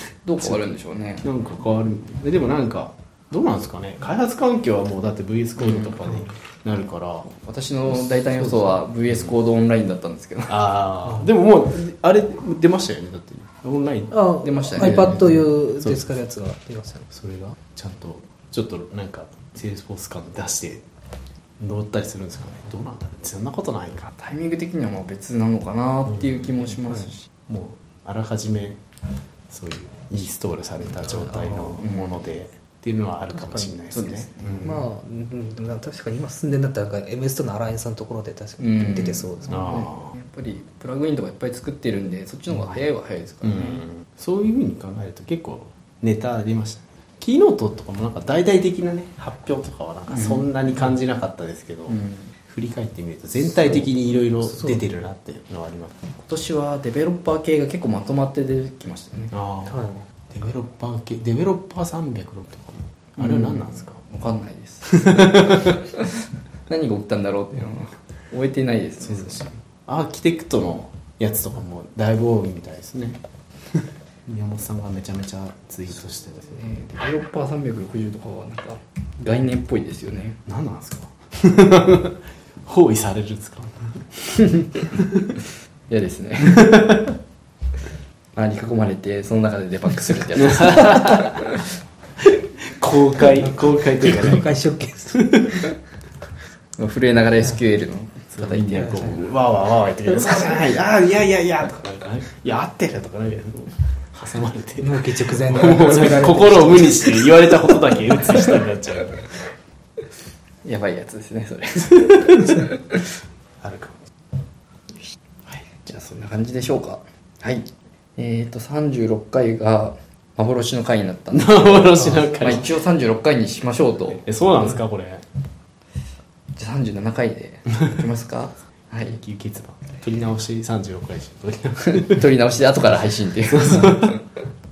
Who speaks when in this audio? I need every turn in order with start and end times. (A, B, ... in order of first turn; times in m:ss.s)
0:00.2-0:01.3 A
0:01.2-0:07.3 B
0:07.2-0:10.6 A
0:07.9-0:08.8 B
0:10.5-0:16.0 B
0:14.1-0:17.1 C
0:14.4-0:15.2 A
0:17.1-0:20.8 B
0:21.6-0:24.2 B
0:24.2-0:27.3 A
0:27.5-0:28.8 B
0:29.5-0:34.8 B
0:31.8-0:32.2 A
0:33.3-0:33.7 C
0:33.9-0:34.8 A
0:34.6-0:39.9 C
0:38.6-0:43.9 A
0:39.5-0:40.0 B
0:44.0-0:56.0 B
0:50.1-0:50.4 A
0:51.9-0:52.3 A
0:56.2-0:59.4 A
0:59.3-0:59.8 B
0:59.7-1:00.0 C
1:00.3-1:04.0 B
1:03.2-1:09.4 A
1:05.0-1:05.8 B
1:09.0-1:16.6 B
1:16.5-1:20.4 A
1:20.4-1:25.3 B
1:25.9-1:26.8 A
1:28.3-1:31.5 A
1:30.5-1:31.3 B
1:32.2-1:34.5 B
1:34.0-1:35.2 C
1:35.1-1:35.6 B
1:36.8-1:39.2 A
1:38.3-1:49.3 B
1:44.8-1:47.2 C
1:50.6-1:53.0 A
1:53.6-1:54.0 B
1:55.8-2:04.3 A
2:01.3-2:02.8 B
2:04.2-2:05.2 B
2:06.6-2:09.2 A
2:09.1-2:12.2 B
2:11.8-2:14.2 A
2:13.5-2:14.1 B